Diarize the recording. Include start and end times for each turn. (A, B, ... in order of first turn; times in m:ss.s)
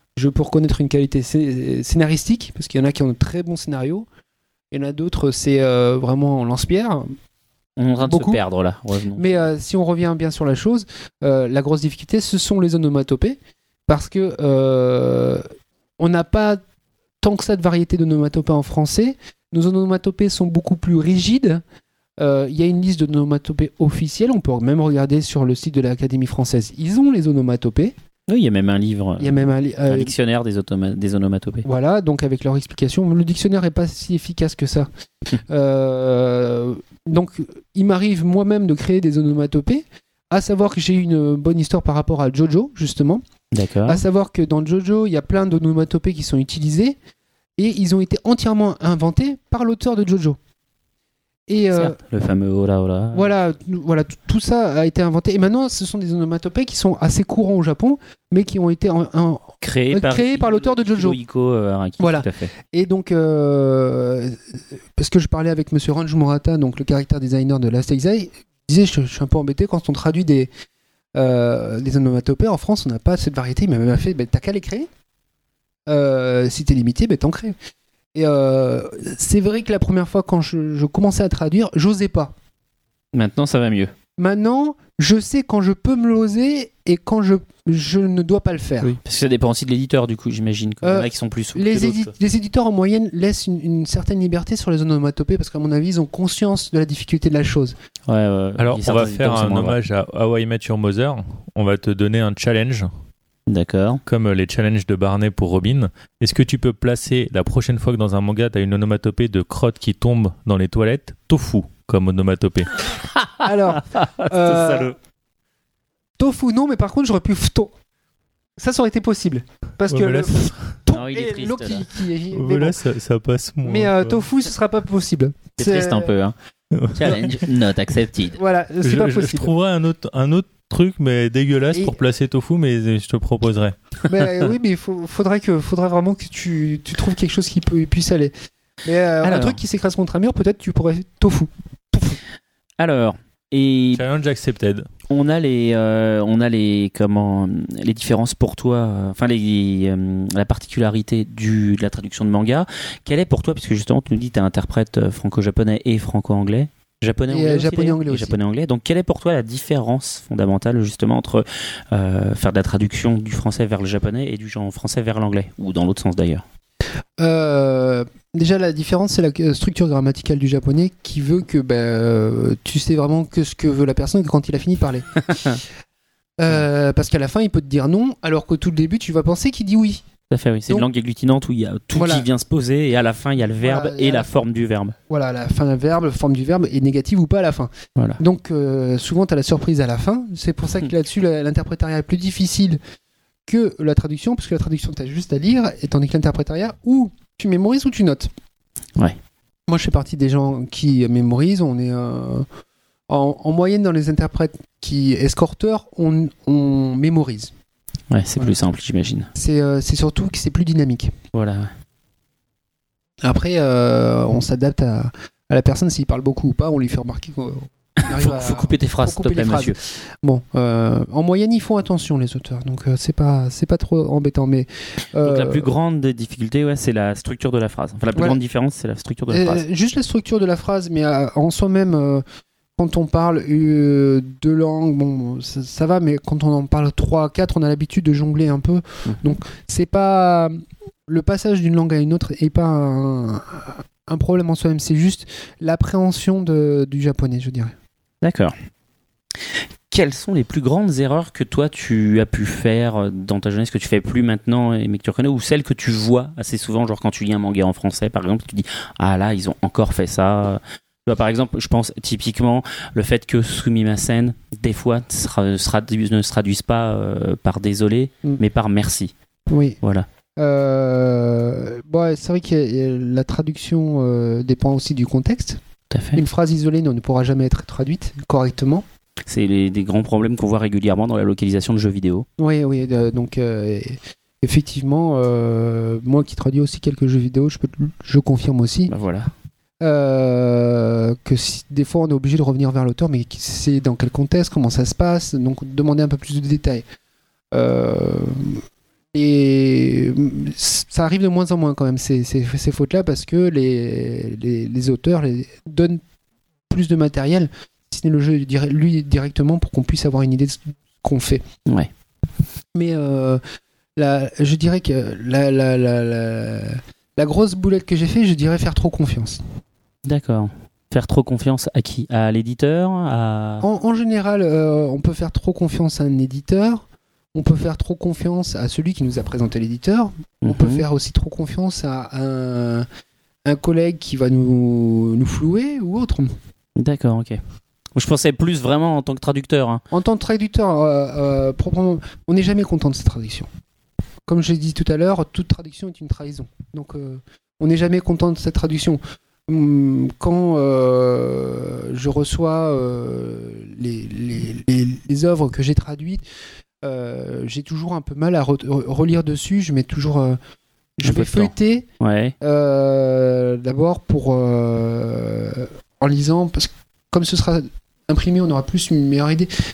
0:00.2-0:04.1 A
0:04.7-0:07.1 A
0:07.8-0:09.5 B
0:08.0-0:08.4 A
0:09.2-0:15.4 A
0:16.0-0:16.6 A
0:17.2-0:21.6 A
0:22.2-0:27.9 A
0:28.3-0:31.7 B
0:29.2-0:30.1 A
0:31.6-0:34.9 A
0:35.5-0:43.2 A
0:43.5-0:44.0 B
0:43.9-0:47.0 A
0:47.6-0:50.4 A
0:51.5-0:52.0 A
0:51.7-0:53.4 B
0:53.1-1:01.2 A
0:59.6-1:02.5 B
1:02.0-1:04.4 A
1:05.0-1:10.5 A
1:11.1-1:14.9 A
1:15.9-1:17.6 A
1:18.1-1:22.3 A
1:23.1-1:23.9 B
1:24.2-1:29.0 A
1:28.9-1:32.1 B
1:30.8-1:37.8 A
1:38.1-1:39.8 B
1:38.6-1:42.9 C
1:43.5-1:44.0 B
1:44.1-1:52.8 C
1:53.0-1:55.0 B
1:53.4-1:54.9 A
1:56.2-1:57.7 A
1:58.6-2:02.8 A
1:59.9-2:00.8 C
2:00.9-2:01.9 B
2:02.3-2:04.3 C
2:03.6-2:06.1 A
2:05.6-2:06.4 B
2:06.7-2:07.4 C
2:06.9-2:08.4 B
2:08.4-2:09.5 A
2:08.8-2:13.8 C
2:14.1-2:18.3 A
2:18.8-2:22.2 A
2:19.2-2:19.6 B
2:22.8-2:24.0 B
2:24.0-2:24.9 C
2:25.1-2:46.4 B
2:37.3-2:38.4 A
2:47.2-2:55.5 A
2:55.3-2:55.6 B
2:56.4-3:00.0 A
3:00.3-3:05.0 B
3:01.9-3:02.3 A
3:03.6-3:04.3 A
3:05.1-3:12.8 A
3:08.0-3:08.2 B
3:13.5-3:18.3 A
3:19.7-3:22.5 A
3:23.1-3:27.5 A
3:28.1-3:29.3 B
3:29.4-3:31.1 A
3:31.3-3:31.7 B
3:33.2-3:45.7 A
3:38.0-3:39.8 B
3:45.2-3:49.6 B
3:49.3-3:52.2 A
3:52.8-4:00.5 A
4:01.1-4:07.7 A
4:08.2-4:08.6 B
4:09.9-4:29.1 B
4:29.5-4:29.8 A
4:29.8-4:30.1 B
4:30.4-4:35.6 A
4:35.9-4:36.2 B
4:36.2-4:38.8 A
4:39.3-4:42.3 B
4:42.4-4:48.9 A
4:48.9-4:49.3 B
4:49.8-4:56.8 A
4:57.5-4:58.6 A
4:59.1-5:06.0 A
5:06.7-5:11.4 A
5:12.7-5:13.4 A
5:14.0-5:19.4 A
5:20.0-5:23.7 B
5:23.6-5:26.8 A
5:27.4-5:32.9 A
5:30.4-5:30.8 B
5:33.4-5:36.3 A
5:36.8-5:37.4 B
5:38.0-5:39.8 B
5:39.9-5:43.5 A
5:44.3-5:56.2 A
5:56.8-6:00.4 A
6:01.0-6:01.9 A
6:01.0-6:02.3 B
6:02.4-6:09.5 A